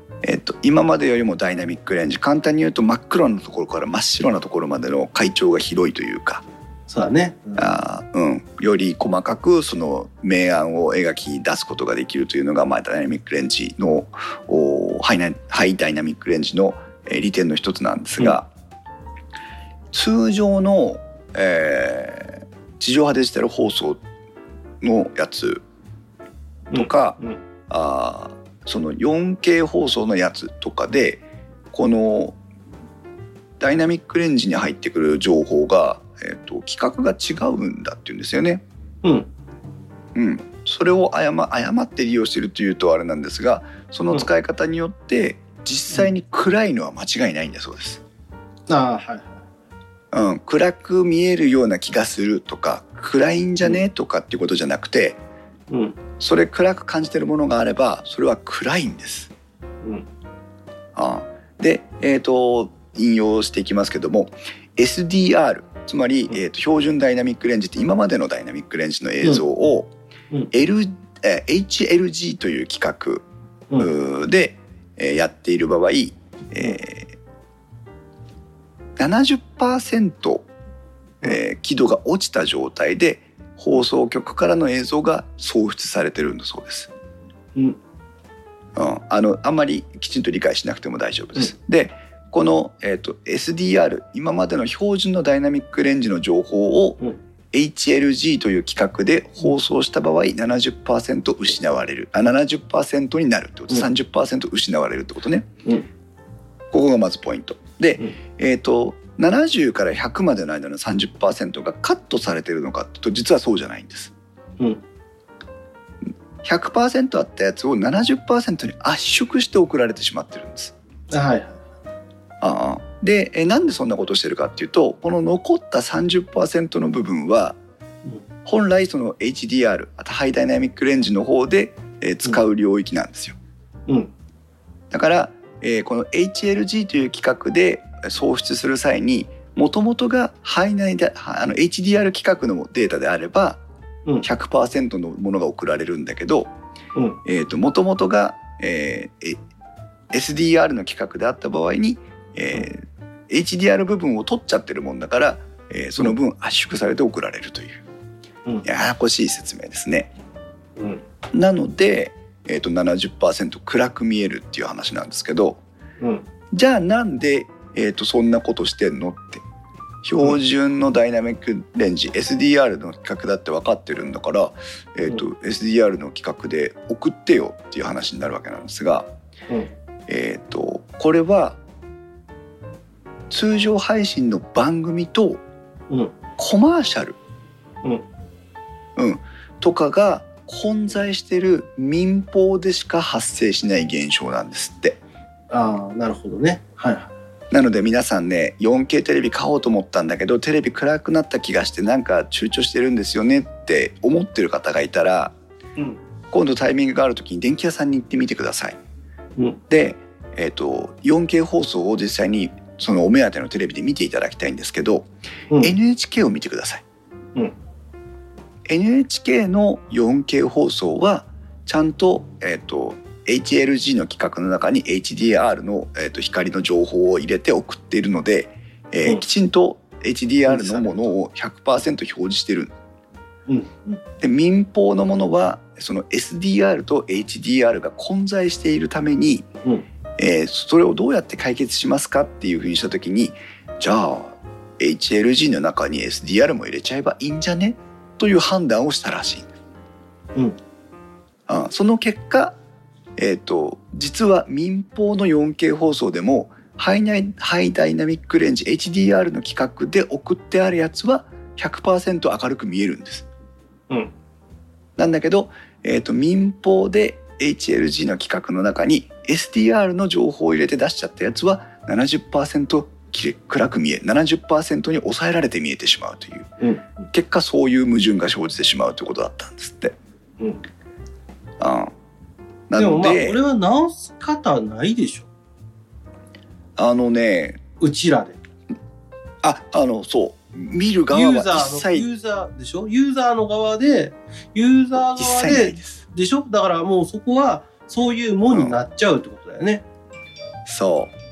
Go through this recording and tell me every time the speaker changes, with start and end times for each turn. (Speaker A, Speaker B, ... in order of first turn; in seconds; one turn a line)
Speaker A: 0.2-6.4
Speaker B: 6.9-7.7
Speaker A: 7.6-18.5
Speaker A: 19.9-24.0
Speaker A: 24.8-25.6
Speaker A: 26.7-32.4
Speaker B: 26.7-27.4
Speaker A: 33.6-38.6
Speaker B: 39.0-39.3
Speaker A: 40.1-48.0
Speaker B: 48.7-49.4
Speaker A: 50.1-55.2
Speaker B: 55.7-56.0
Speaker A: 56.2-59.3
Speaker A: 61.0-69.9
Speaker A: 70.5-73.2
Speaker A: 73.8-77.2
Speaker A: 79.0-80.5
Speaker A: 81.2-86.9
Speaker A: 88.8-97.0
Speaker A: 97.5-105.5
Speaker A: 106.7-114.1
Speaker A: 116.4-120.7
Speaker B: 121.1-121.6
Speaker A: 122.4-127.6
Speaker A: 128.4-133.4
Speaker A: 134.9-143.6
Speaker A: 144.2-146.5
Speaker A: 147.2-149.4
Speaker A: 150.1-157.8
Speaker A: 158.6-160.1
Speaker B: 160.8-161.0
Speaker A: 161.3-165.6
Speaker B: 166.0-166.3
Speaker A: 166.5-169.4
Speaker A: 170.0-179.1
Speaker A: 180.1-181.6
Speaker A: 183.3-185.4
Speaker A: 186.4-187.2
Speaker A: 189.0-195.0
Speaker B: 195.5-197.1
Speaker A: 197.5-205.3
Speaker A: 206.3-208.8
Speaker A: 209.7-215.1
Speaker A: 215.6-216.8
Speaker A: 218.7-232.7
Speaker B: 230.5-231.1
Speaker B: 233.5-234.0
Speaker A: 234.2-239.5
Speaker A: 240.2-249.5
Speaker A: 251.5-252.6
Speaker A: 253.2-263.3
Speaker A: 265.0-276.5
Speaker B: 276.6-277.0
Speaker A: 277.1-280.0
Speaker A: 281.6-281.9
Speaker A: 282.7-283.4
Speaker B: 282.8-285.3
Speaker A: 286.8-287.6
Speaker B: 287.8-288.4
Speaker A: 289.4-292.1
Speaker B: 291.1-299.9
Speaker A: 295.2-296.0
Speaker A: 300.7-301.1